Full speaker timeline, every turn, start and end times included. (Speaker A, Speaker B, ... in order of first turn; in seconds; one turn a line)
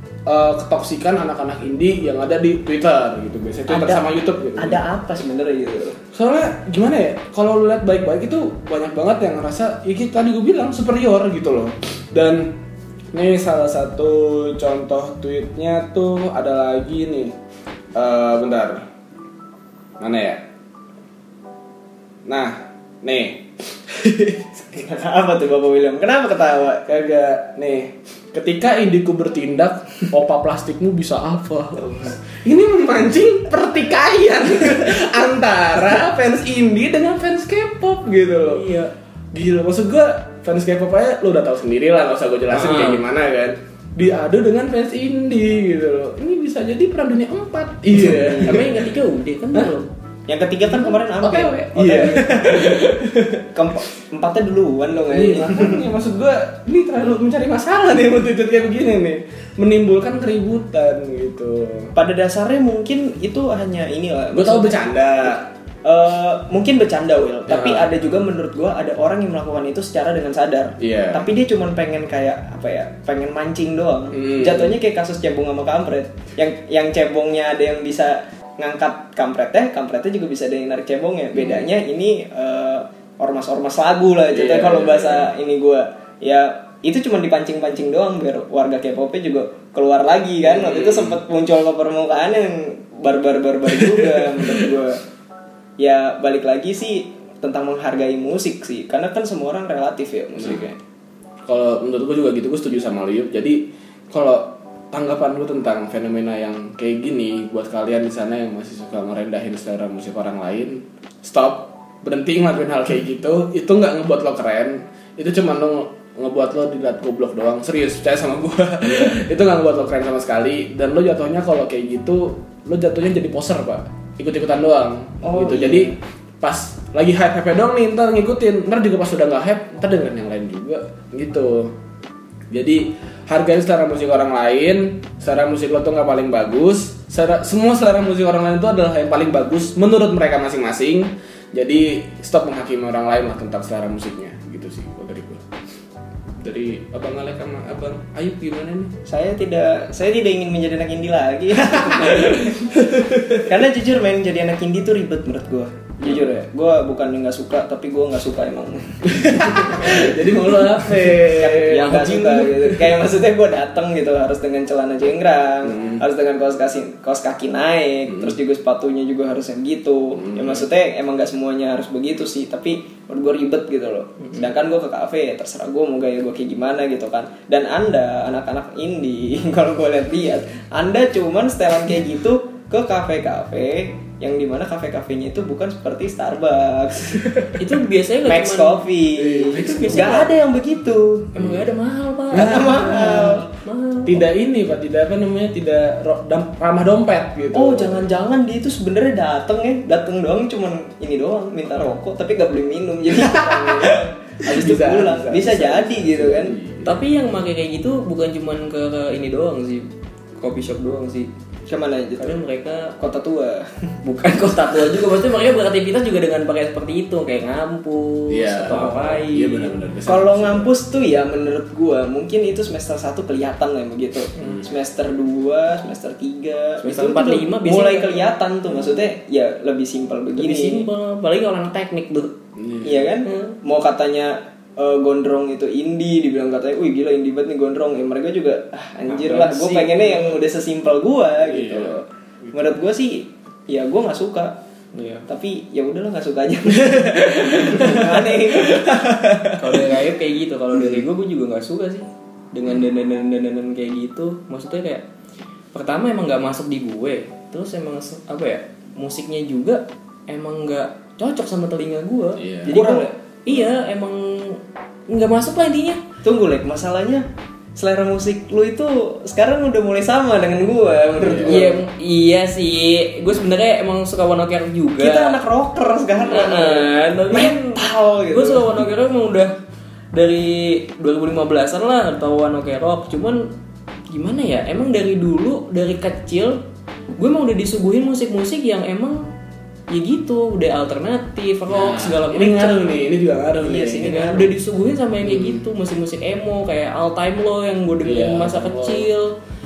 Speaker A: 0.3-4.8
Speaker B: 3.7-6.0
Speaker A: 6.1-12.6
Speaker A: 13.1-17.4
Speaker A: 17.9-18.9
Speaker A: 20.0-20.4
Speaker A: 22.3-24.5
Speaker B: 24.6-26.8
Speaker A: 26.9-38.7
Speaker C: 38.5-38.9
Speaker A: 39.3-48.8
Speaker C: 42.5-43.0
Speaker B: 48.0-48.6
Speaker C: 48.0-49.9
Speaker B: 50.3-52.9
Speaker A: 50.7-53.5
Speaker B: 53.5-55.8
Speaker A: 55.1-61.9
Speaker B: 62.0-65.3
Speaker A: 64.3-65.5
Speaker B: 65.8-95.0
Speaker A: 67.5-67.9
Speaker A: 70.8-71.3
Speaker A: 74.1-74.8
Speaker A: 81.3-81.7
Speaker A: 84.3-85.3
Speaker A: 90.4-91.2
Speaker A: 93.8-94.5
Speaker B: 95.8-100.8
Speaker A: 100.4-100.7
Speaker A: 101.5-131.8
Speaker B: 125.2-126.0
Speaker A: 132.5-145.4
Speaker A: 146.4-148.9
Speaker B: 149.1-160.2
Speaker A: 151.7-153.4
Speaker A: 156.0-156.3
Speaker A: 159.1-162.7
Speaker B: 161.1-187.5
Speaker C: 161.7-162.5
Speaker A: 165.6-166.0
Speaker A: 168.1-168.3
Speaker A: 170.2-170.7
Speaker C: 187.6-188.9
Speaker B: 188.2-191.4
Speaker A: 189.2-190.3
Speaker C: 189.5-190.3
Speaker C: 191.3-194.2
Speaker A: 191.4-191.6
Speaker A: 192.3-193.3
Speaker B: 192.3-193.5
Speaker A: 194.1-198.1
Speaker B: 197.5-206.5
Speaker A: 203.2-207.0
Speaker C: 206.8-211.3
Speaker B: 211.7-212.3
Speaker C: 212.2-212.9
Speaker B: 213.0-213.7
Speaker C: 214.0-219.7
Speaker A: 218.3-220.7
Speaker B: 220.1-230.9
Speaker A: 224.4-224.6
Speaker C: 226.8-228.3
Speaker C: 230.4-232.3
Speaker A: 232.6-233.1
Speaker B: 232.8-244.6
Speaker C: 233.3-233.6
Speaker C: 239.3-240.4
Speaker A: 241.4-242.6
Speaker C: 244.9-245.3
Speaker B: 245.3-249.5
Speaker A: 246.8-249.5
Speaker C: 249.6-255.0
Speaker C: 255.7-266.0
Speaker A: 262.4-262.8
Speaker B: 262.7-263.1
Speaker B: 266.2-271.8
Speaker A: 271.2-271.7
Speaker C: 271.5-275.4
Speaker B: 275.0-278.8
Speaker C: 276.3-279.6
Speaker C: 280.1-283.5
Speaker C: 284.1-286.6
Speaker C: 287.2-289.3
Speaker C: 289.9-292.9
Speaker A: 291.7-294.1
Speaker B: 293.6-294.5
Speaker C: 294.0-299.4
Speaker A: 295.2-295.6
Speaker A: 298.0-299.1